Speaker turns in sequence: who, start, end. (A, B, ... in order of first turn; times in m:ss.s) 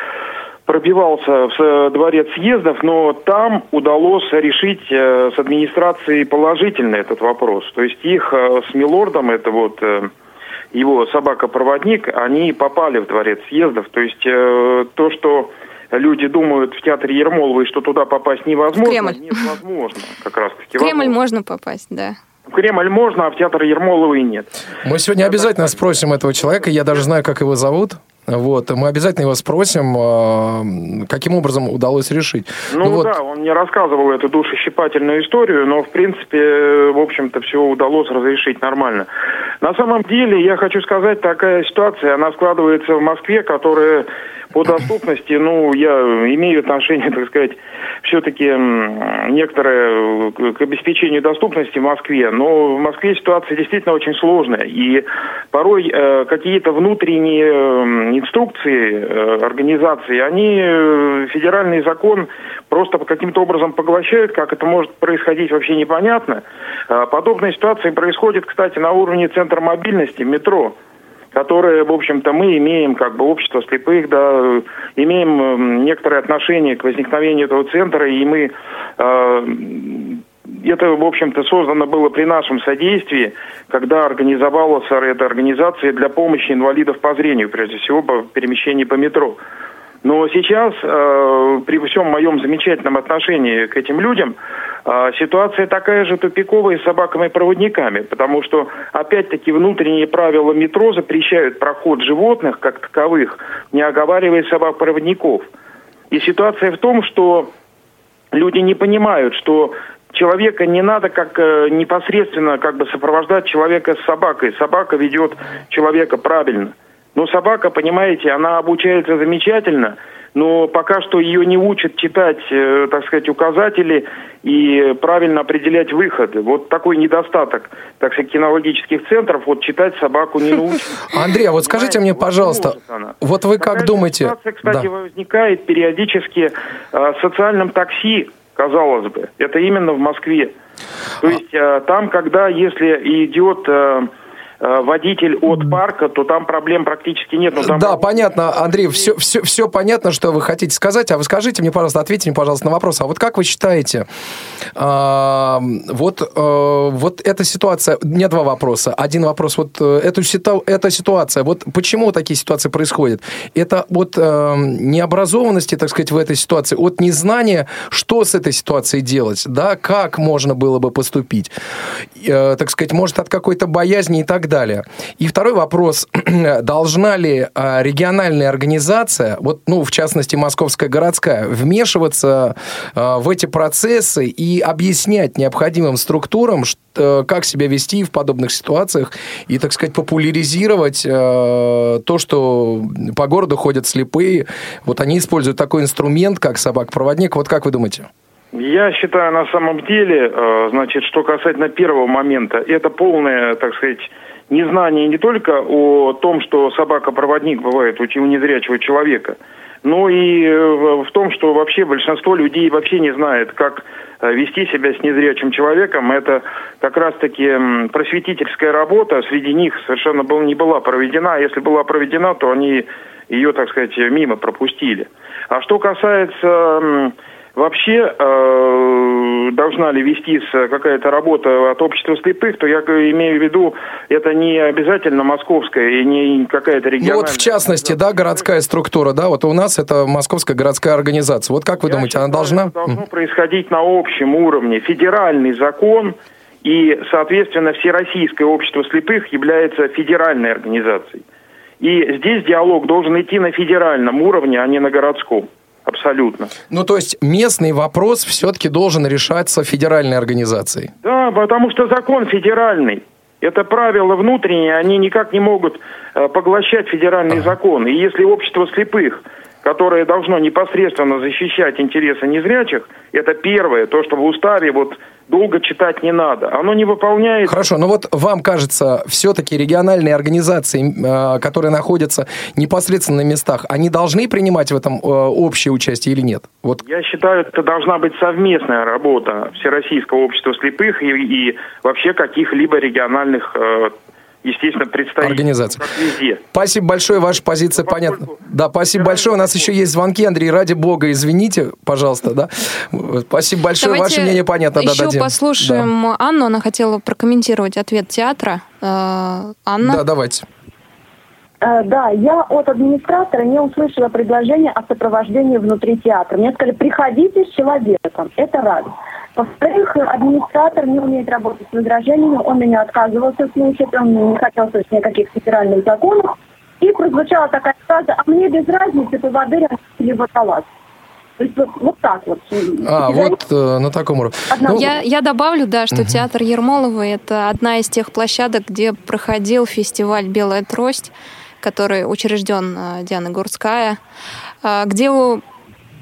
0:00.6-0:10.1 A
0:10.7-0:21.2 A
0:18.8-0:19.4 B
0:20.8-0:22.2 B
0:22.5-0:24.5 A
0:24.8-0:33.1 C
0:25.2-0:25.8 A
0:26.5-0:27.0 A
0:32.7-0:39.1 A
0:39.6-1:10.8 A
1:11.3-1:29.4 A
1:30.0-1:45.5 A
1:46.1-1:47.5 A
1:48.3-2:11.0 A
2:11.1-2:14.9 C
2:11.6-2:20.5 A
2:21.2-2:29.0 A
2:27.6-2:34.1 C
2:34.7-2:51.5 C
2:52.2-3:18.1 C
3:18.5-3:58.4 A
3:57.0-4:03.0 C
4:01.8-4:11.2 A
4:11.8-4:16.5 A
4:16.7-4:20.9 C
4:21.0-4:37.6 A
4:37.4-4:46.8 C
4:46.8-4:56.4 A
4:55.2-4:55.8 C
4:56.5-5:05.9 C
4:57.8-4:58.4 A
4:58.9-4:59.7 A
5:03.8-5:10.0 B
5:09.8-5:10.4 C
5:11.6-5:30.7 D
5:31.4-5:33.4 D
5:32.8-5:34.9 C
5:34.5-5:34.8 D
5:34.7-5:41.1 B
5:35.9-5:36.2 C
5:41.6-5:44.0 B
5:44.6-5:45.4 B